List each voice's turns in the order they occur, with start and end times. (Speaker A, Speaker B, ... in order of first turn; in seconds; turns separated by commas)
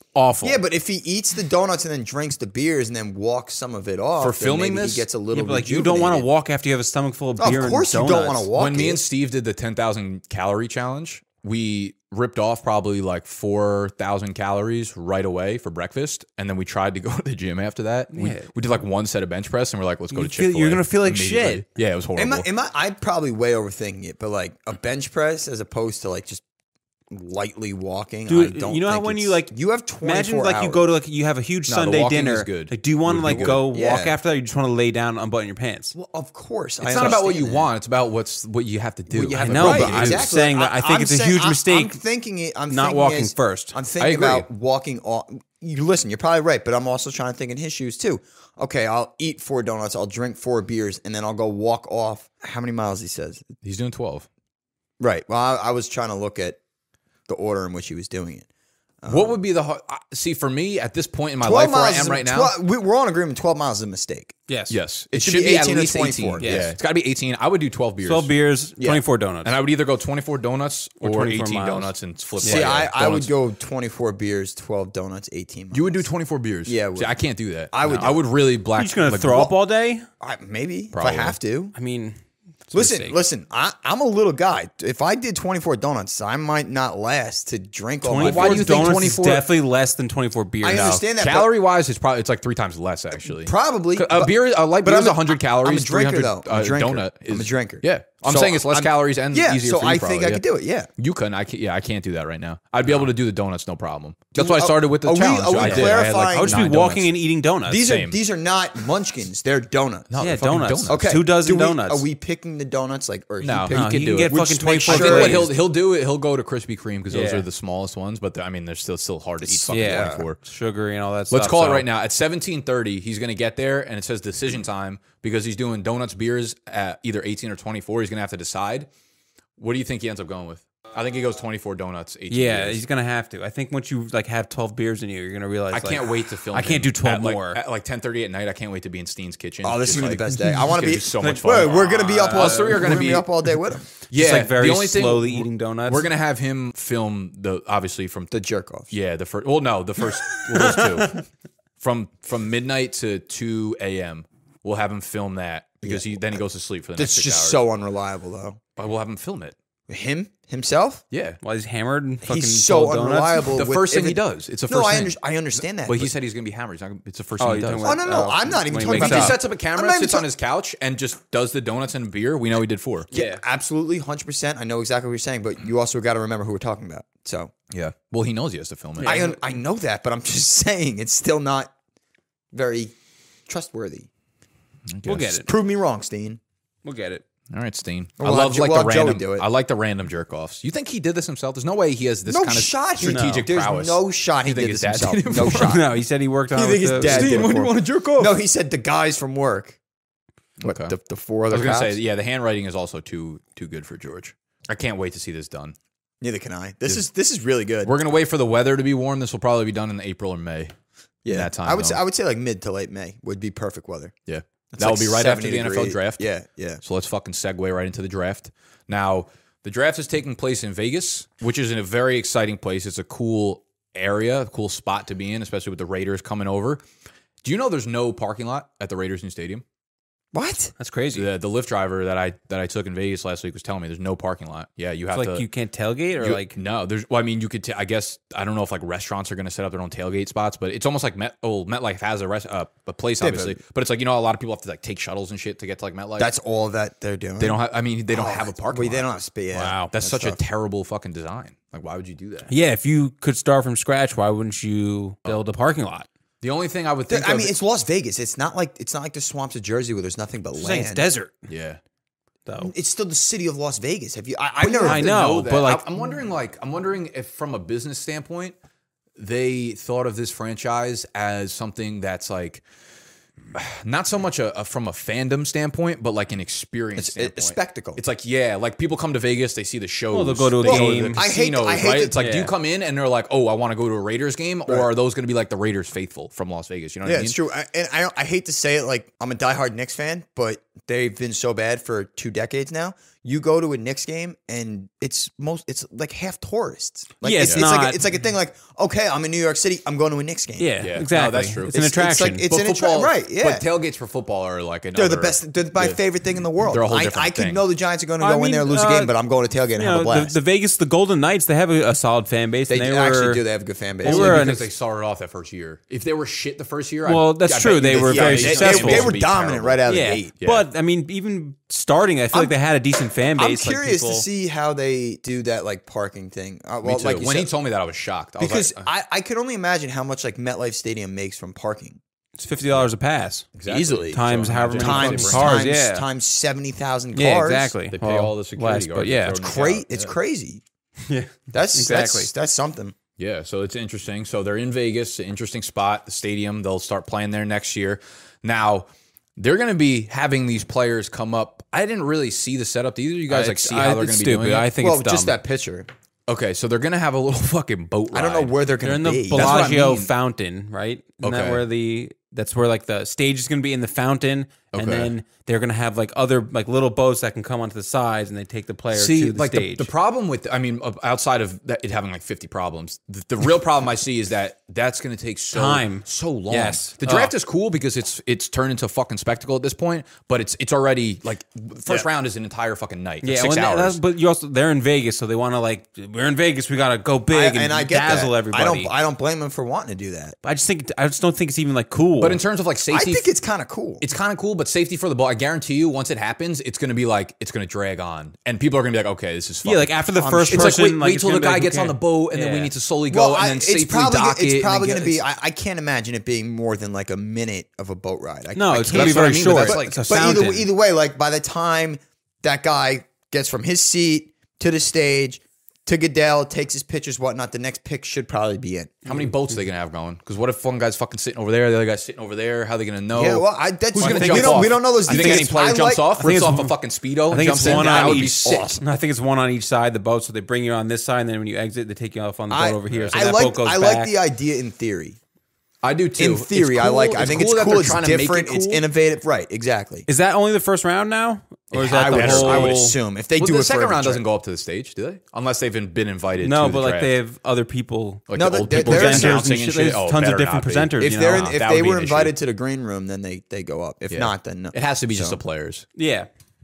Speaker A: 0.1-0.6, Speaker B: 0.4-6.3, Speaker A: 4.2-5.1, Speaker C: 5.3-8.5, Speaker B: 7.4-9.0, Speaker A: 8.6-22.5, Speaker C: 18.1-18.5, Speaker C: 20.1-21.6, Speaker B: 22.2-26.4, Speaker B: 27.1-30.9, Speaker C: 28.3-35.9, Speaker A: 31.7-33.6, Speaker B: 33.5-34.2, Speaker B: 35.9-37.7, Speaker A: 36.8-40.3, Speaker B: 39.1-53.5, Speaker C: 39.4-42.0, Speaker C: 42.7-43.7, Speaker A: 44.0-44.5, Speaker A: 53.6-54.3, Speaker B: 55.0-56.6, Speaker B: 57.3-58.5, Speaker B: 59.0-59.4, Speaker A: 59.1-62.5, Speaker B: 61.4-64.3, Speaker C: 64.5-64.8, Speaker A: 64.7-68.3, Speaker B: 65.1-66.7, Speaker C: 66.4-66.7, Speaker C: 68.0-69.5, Speaker A: 69.4-73.3, Speaker C: 71.0-72.8, Speaker B: 72.4-76.1, Speaker A: 75.7-79.5, Speaker B: 76.6-77.2, Speaker B: 77.7-78.2, Speaker C: 78.8-80.0, Speaker B: 80.2-81.7, Speaker A: 80.9-81.4, Speaker C: 81.7-82.2, Speaker C: 82.7-83.2, Speaker B: 82.7-88.9, Speaker C: 88.0-91.0, Speaker A: 88.2-89.5, Speaker B: 90.6-91.5, Speaker A: 91.1-100.4, Speaker B: 93.2-100.9, Speaker A: 101.0-107.1, Speaker B: 104.3-106.7, Speaker C: 105.6-107.9, Speaker B: 107.7-110.1, Speaker A: 107.7-108.2, Speaker A: 110.1-111.0, Speaker C: 110.2-112.0, Speaker B: 110.9-115.5, Speaker A: 113.4-120.4, Speaker C: 113.7-115.5, Speaker C: 117.1-117.5, Speaker B: 119.4-120.2, Speaker C: 119.7-121.9, Speaker A: 121.3-128.9, Speaker A: 129.6-132.8, Speaker C: 132.3-137.6, Speaker A: 135.7-143.2, Speaker B: 139.6-143.8, Speaker C: 141.2-143.1, Speaker A: 144.1-148.3, Speaker C: 144.1-146.1, Speaker B: 148.3-148.9, Speaker A: 148.9-151.2, Speaker A: 151.8-157.6, Speaker B: 155.8-156.4, Speaker B: 157.0-158.6, Speaker A: 158.8-159.5, Speaker B: 159.9-161.0, Speaker A: 161.1-161.4, Speaker C: 161.4-163.5, Speaker B: 162.2-166.1, Speaker A: 163.5-168.0, Speaker C: 167.4-169.4, Speaker B: 167.8-170.2, Speaker A: 168.8-173.1, Speaker B: 173.1-177.5, Speaker A: 177.7-179.3, Speaker C: 179.0-179.4, Speaker B: 179.0-181.7, Speaker B: 182.5-182.9, Speaker B: 183.5-184.1, Speaker A: 184.9-185.4, Speaker C: 185.1-185.5, Speaker B: 185.4-186.4, Speaker C: 186.8-187.2, Speaker A: 187.5-195.8, Speaker B: 188.2-189.4, Speaker B: 192.2-195.8, Speaker C: 193.0-193.5, Speaker C: 195.4-197.7, Speaker B: 196.5-199.8, Speaker A: 197.0-198.3, Speaker A: 200.6-200.9, Speaker B: 200.6-202.0, Speaker A: 201.5-205.7, Speaker B: 206.2-207.9, Speaker A: 207.8-210.7, Speaker B: 211.2-214.1, Speaker A: 211.3-212.0, Speaker A: 214.3-216.3, Speaker B: 214.7-216.8, Speaker A: 216.8-226.8, Speaker A: 227.4-229.6, Speaker B: 230.3-230.7, Speaker C: 230.8-231.3, Speaker A: 231.1-235.4, Speaker C: 235.1-236.6, Speaker A: 236.2-246.3, Speaker B: 243.2-243.6, Speaker B: 246.2-250.4, Speaker A: 247.4-252.5, Speaker C: 249.6-249.9, Speaker C: 252.5-256.1, Speaker A: 256.4-257.6, Speaker B: 257.1-261.1, Speaker C: 260.6-261.4, Speaker A: 261.5-261.8, Speaker C: 262.4-262.7, Speaker B: 262.6-265.1, Speaker A: 264.6-268.5, Speaker C: 264.8-265.8, Speaker A: 269.2-272.6, Speaker A: 273.5-287.4, Speaker B: 276.9-278.0, Speaker C: 280.1-281.2, Speaker B: 280.6-282.2, Speaker C: 282.1-282.5, Speaker B: 287.0-300.7, Speaker C: 297.2-298.0, Speaker C: 300.6-302.5, Speaker A: 300.8-301.8, Speaker B: 301.7-303.6, Speaker A: 302.5-306.0, Speaker B: 304.9-310.4, Speaker A: 306.6-307.6, Speaker C: 308.2-309.1, Speaker C: 309.8-313.4, Speaker B: 312.7-314.5, Speaker C: 314.0-314.7, Speaker A: 314.0-319.8, Speaker C: 317.0-319.2, Speaker B: 318.1-320.3, Speaker C: 319.9-324.2, Speaker A: 320.4-320.6, Speaker B: 323.4-327.5, Speaker A: 326.8-328.9, Speaker B: 328.4-332.0, Speaker C: 332.4-333.5, Speaker A: 333.6-335.7, Speaker B: 333.6-334.2, Speaker C: 334.1-336.1, Speaker B: 334.8-337.7, Speaker C: 337.1-339.4, Speaker A: 337.9-340.1, Speaker B: 339.4-340.6, Speaker C: 341.1-342.3, Speaker B: 341.5-342.9, Speaker A: 343.2-354.7, Speaker C: 353.3-355.3, Speaker B: 354.8-355.9, Speaker A: 356.3-358.5, Speaker B: 358.1-359.6, Speaker C: 358.8-369.9, Speaker A: 359.3-360.1, Speaker A: 361.2-361.6, Speaker A: 364.7-365.1, Speaker A: 368.9-384.0, Speaker C: 375.5-377.3, Speaker C: 383.2-388.9, Speaker B: 387.3-390.4, Speaker C: 390.4-392.4, Speaker A: 392.2-393.2, Speaker B: 392.9-394.0, Speaker A: 394.0-399.9, Speaker C: 399.6-402.7, Speaker B: 400.2-400.8, Speaker A: 400.5-405.2, Speaker B: 403.1-419.0, Speaker C: 408.6-410.7, Speaker A: 408.9-410.2, Speaker A: 419.1-428.8, Speaker B: 423.1-426.1, Speaker C: 424.0-425.6, Speaker C: 426.2-426.7, Speaker C: 427.3-434.1, Speaker B: 427.6-428.8, Speaker B: 432.5-435.2, Speaker A: 432.9-433.2, Speaker A: 435.8-438.8, Speaker B: 436.2-440.1, Speaker C: 440.1-442.9, Speaker A: 441.7-447.1, Speaker B: 441.8-444.2, Speaker C: 446.4-451.6, Speaker A: 448.3-452.3, Speaker B: 448.3-449.4, Speaker B: 451.0-455.4, Speaker A: 454.1-455.9, Speaker C: 455.9-456.3